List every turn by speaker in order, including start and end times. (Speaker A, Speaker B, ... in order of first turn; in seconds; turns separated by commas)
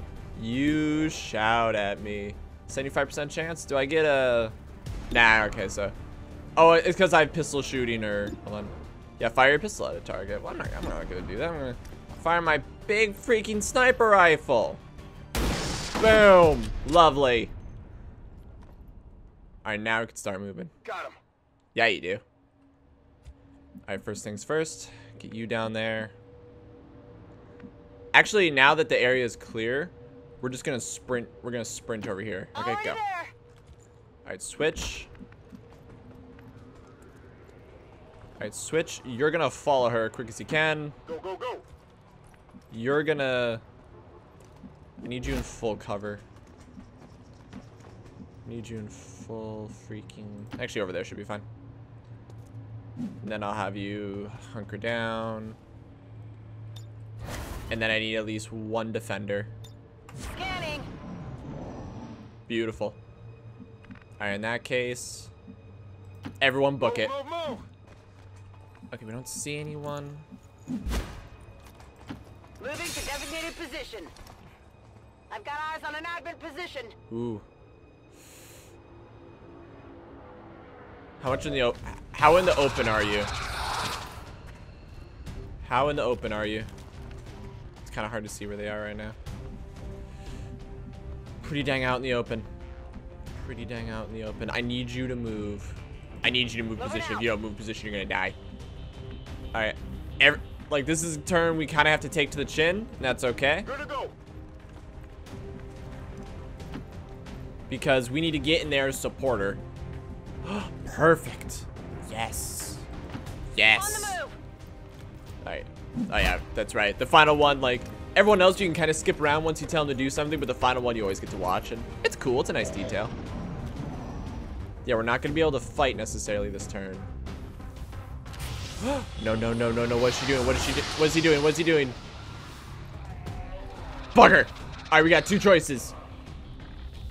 Speaker A: 0.3-4.5, Speaker A: 5.1-5.9, Speaker A: 6.5-14.8, Speaker A: 16.0-17.5, Speaker A: 19.6-20.7, Speaker B: 20.8-21.2, Speaker A: 21.7-22.2, Speaker A: 23.9-26.1, Speaker A: 28.1-33.0, Speaker C: 32.5-33.3, Speaker A: 34.2-35.1, Speaker A: 38.4-41.0, Speaker B: 41.1-41.6, Speaker A: 42.7-43.6, Speaker A: 45.0-46.2, Speaker A: 48.4-51.4, Speaker A: 53.2-55.6, Speaker A: 57.7-59.5, Speaker C: 60.2-60.9, Speaker A: 62.5-63.0, Speaker A: 64.2-65.3, Speaker A: 66.4-67.1, Speaker B: 66.8-67.7, Speaker A: 68.9-70.2, Speaker C: 72.6-74.1, Speaker C: 75.3-76.9, Speaker A: 77.1-77.4, Speaker A: 81.2-83.3, Speaker A: 85.6-86.7, Speaker A: 87.8-89.2, Speaker A: 91.4-92.5, Speaker A: 93.3-98.3, Speaker C: 96.8-97.3, Speaker A: 99.5-103.7, Speaker B: 103.6-104.1, Speaker A: 107.7-109.6, Speaker A: 110.4-112.8, Speaker A: 113.5-114.2, Speaker C: 113.8-114.4, Speaker A: 115.4-123.1, Speaker A: 124.8-127.1, Speaker A: 128.8-132.0, Speaker A: 134.1-135.9